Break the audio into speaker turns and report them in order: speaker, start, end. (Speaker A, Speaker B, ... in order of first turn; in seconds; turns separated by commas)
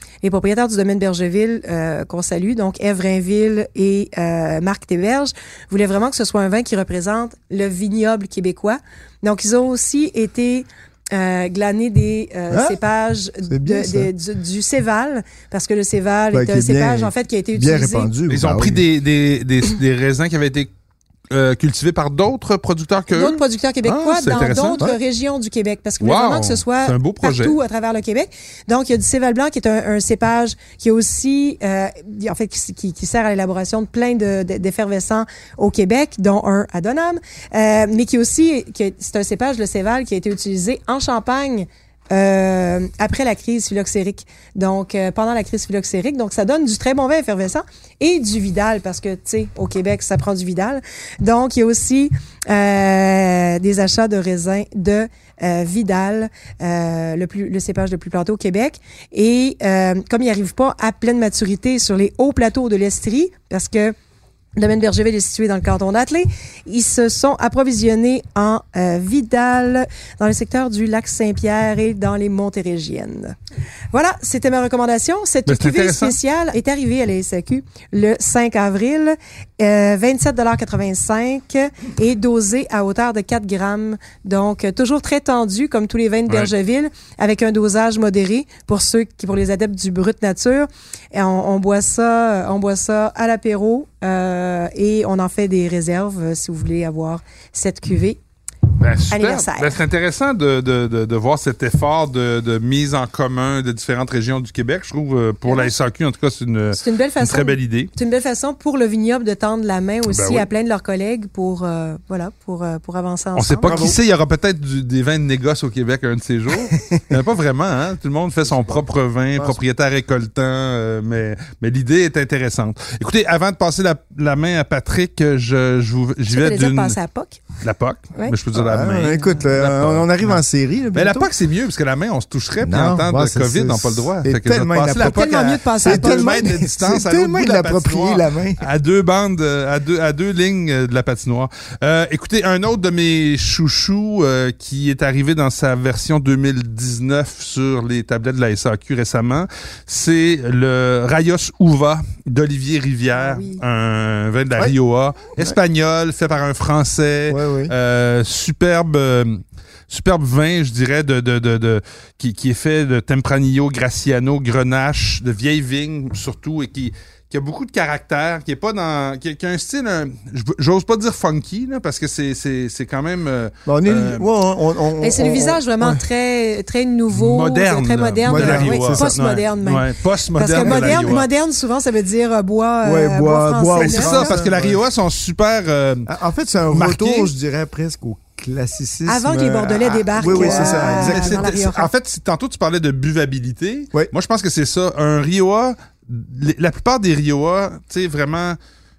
Speaker A: 0.2-18.1, Speaker B: 12.5-12.8, Speaker B: 13.4-14.1, Speaker B: 16.3-18.9, Speaker C: 18.3-20.7, Speaker C: 21.3-24.9, Speaker A: 23.1-63.9, Speaker C: 26.0-27.6, Speaker A: 64.6-73.4, Speaker A: 73.9-98.2, Speaker C: 75.5-76.2, Speaker C: 98.8-107.9, Speaker A: 99.1-99.8, Speaker A: 105.5-105.7, Speaker A: 106.7-113.8, Speaker C: 110.1-110.5, Speaker C: 113.3-127.0, Speaker B: 113.7-114.0, Speaker B: 118.5-118.8, Speaker B: 119.3-119.6, Speaker A: 126.3-127.5, Speaker C: 127.6-130.4, Speaker B: 128.5-131.3, Speaker C: 130.9-174.3, Speaker B: 132.6-138.6, Speaker A: 135.0-136.6, Speaker A: 153.1-153.6, Speaker B: 157.3-157.7, Speaker B: 173.7-176.0, Speaker A: 175.0-184.4, Speaker C: 177.1-181.3, Speaker B: 178.3-179.2, Speaker B: 180.5-181.2, Speaker B: 182.8-184.8, Speaker C: 183.8-186.1, Speaker B: 186.1-191.5, Speaker C: 186.7-187.3, Speaker A: 189.1-191.9, Speaker C: 190.2-198.6